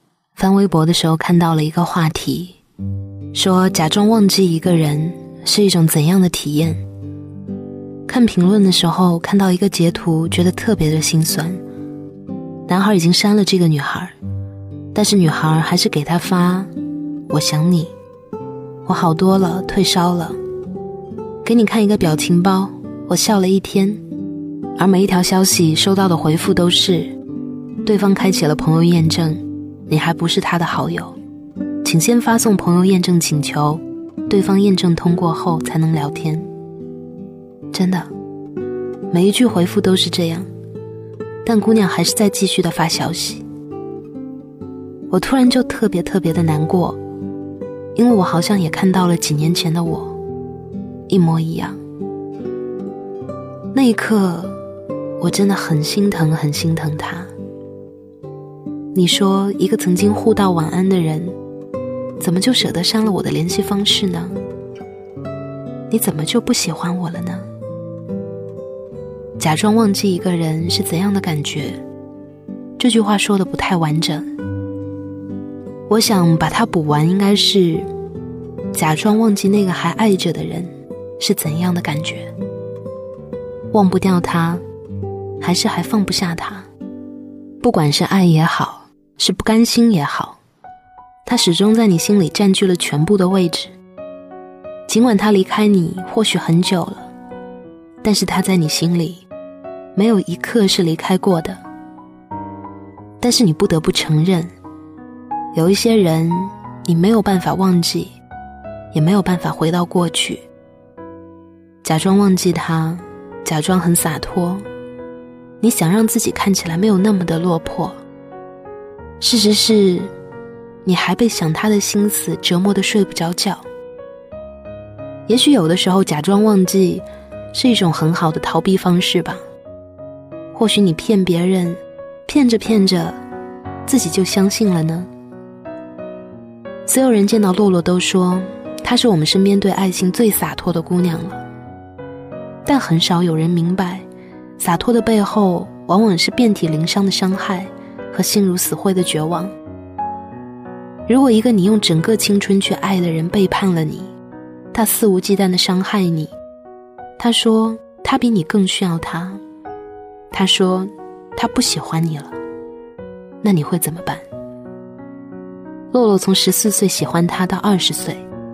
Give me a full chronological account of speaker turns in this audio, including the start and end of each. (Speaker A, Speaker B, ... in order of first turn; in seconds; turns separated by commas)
Speaker A: 0.3-2.6, Speaker A: 3.3-6.8, Speaker A: 8.1-11.6, Speaker A: 12.7-14.1, Speaker A: 14.9-16.7, Speaker A: 17.3-17.9, Speaker A: 18.9-20.4, Speaker A: 21.4-24.0, Speaker A: 24.8-27.1, Speaker A: 27.8-31.2, Speaker A: 31.8-36.5, Speaker A: 37.7-38.1, Speaker A: 39.1-40.5, Speaker A: 41.4-43.4, Speaker A: 45.1-47.0, Speaker A: 47.9-50.1, Speaker A: 51.1-51.8, Speaker A: 53.7-54.5, Speaker A: 55.2-57.3, Speaker A: 58.9-61.4, Speaker A: 62.2-64.3, Speaker A: 65.9-67.5, Speaker A: 69.4-71.8, Speaker A: 72.8-74.3, Speaker A: 75.9-77.9, Speaker A: 78.7-82.3, Speaker A: 83.7-84.6, Speaker A: 85.4-86.7, Speaker A: 87.6-90.4, Speaker A: 91.2-93.7, Speaker A: 94.9-97.1, Speaker A: 98.0-99.2, Speaker A: 99.9-101.6, Speaker A: 103.2-104.5, Speaker A: 105.5-108.1, Speaker A: 108.9-110.5, Speaker A: 111.8-114.6, Speaker A: 115.6-118.0, Speaker A: 119.2-120.1, Speaker A: 120.8-123.6, Speaker A: 125.3-129.4, Speaker A: 130.5-133.2, Speaker A: 133.8-135.1, Speaker A: 136.9-141.4, Speaker A: 142.6-144.0, Speaker A: 144.6-149.5, Speaker A: 151.1-154.1, Speaker A: 154.7-156.3, Speaker A: 157.2-159.4, Speaker A: 160.3-162.4, Speaker A: 163.4-164.2, Speaker A: 165.9-168.2